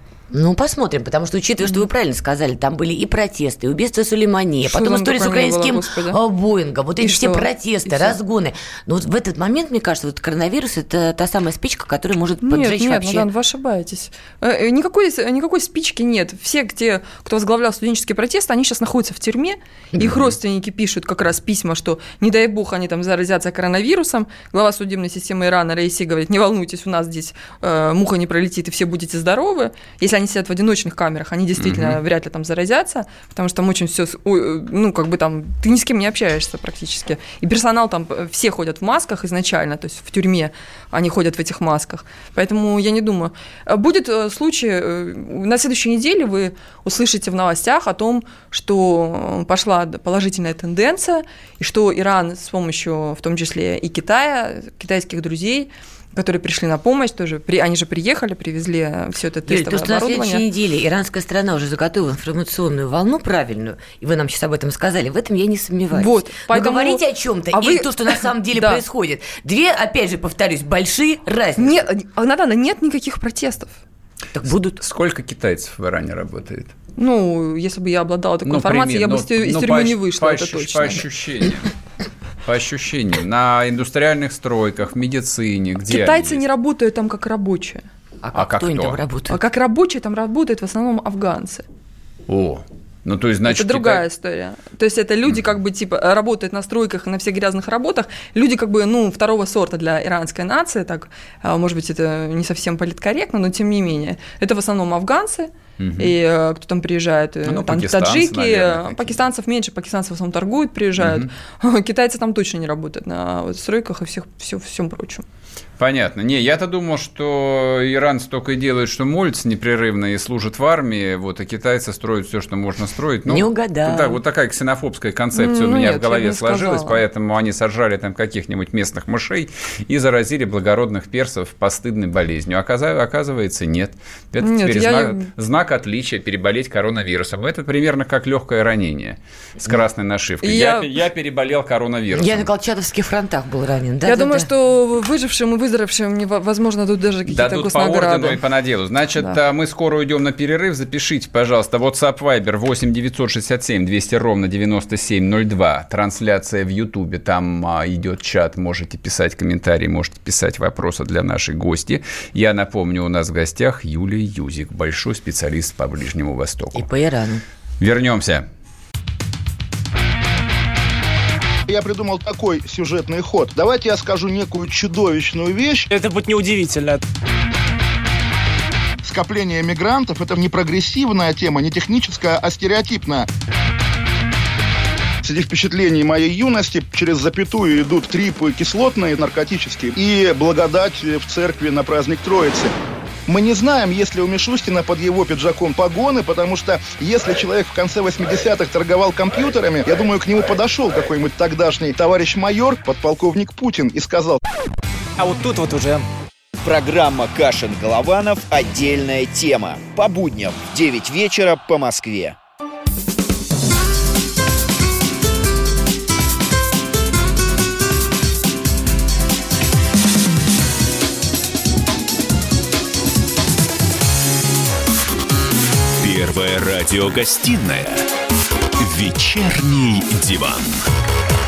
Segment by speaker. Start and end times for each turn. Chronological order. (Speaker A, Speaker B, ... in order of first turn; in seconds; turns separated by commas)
Speaker A: 0.3-13.3, Speaker B: 4.6-6.2, Speaker B: 7.0-8.2, Speaker B: 12.4-60.4, Speaker A: 19.9-20.2, Speaker C: 31.6-32.0, Speaker A: 59.5-71.9, Speaker B: 65.9-68.8, Speaker B: 71.6-73.8, Speaker A: 74.3-74.8, Speaker C: 74.8-76.7, Speaker B: 77.0-81.0, Speaker C: 78.5-81.7, Speaker C: 82.4-86.4, Speaker B: 85.9-87.8, Speaker A: 88.2-89.4, Speaker C: 88.3-89.0, Speaker B: 89.3-91.6, Speaker C: 92.3-94.0, Speaker B: 93.5-115.2, Speaker C: 105.8-106.2, Speaker C: 107.4-109.2, Speaker C: 111.0-111.3, Speaker C: 115.8-142.5, Speaker A: 123.3-124.2, Speaker B: 125.3-127.0, Speaker B: 134.4-135.3, Speaker B: 140.4-140.9, Speaker A: 142.1-144.5, Speaker B: 144.0-148.4, Speaker C: 147.3-166.9, Speaker A: 166.7-167.4, Speaker C: 167.8-168.4, Speaker D: 171.7-175.9, Speaker E: 175.9-177.0, Speaker D: 179.0-183.3, Speaker D: 185.2-192.7, Speaker D: 193.3-204.4, Speaker E: 205.2-206.1, Speaker F: 206.6-212.4, Speaker G: 226.0-228.0, Speaker G: 228.8-230.8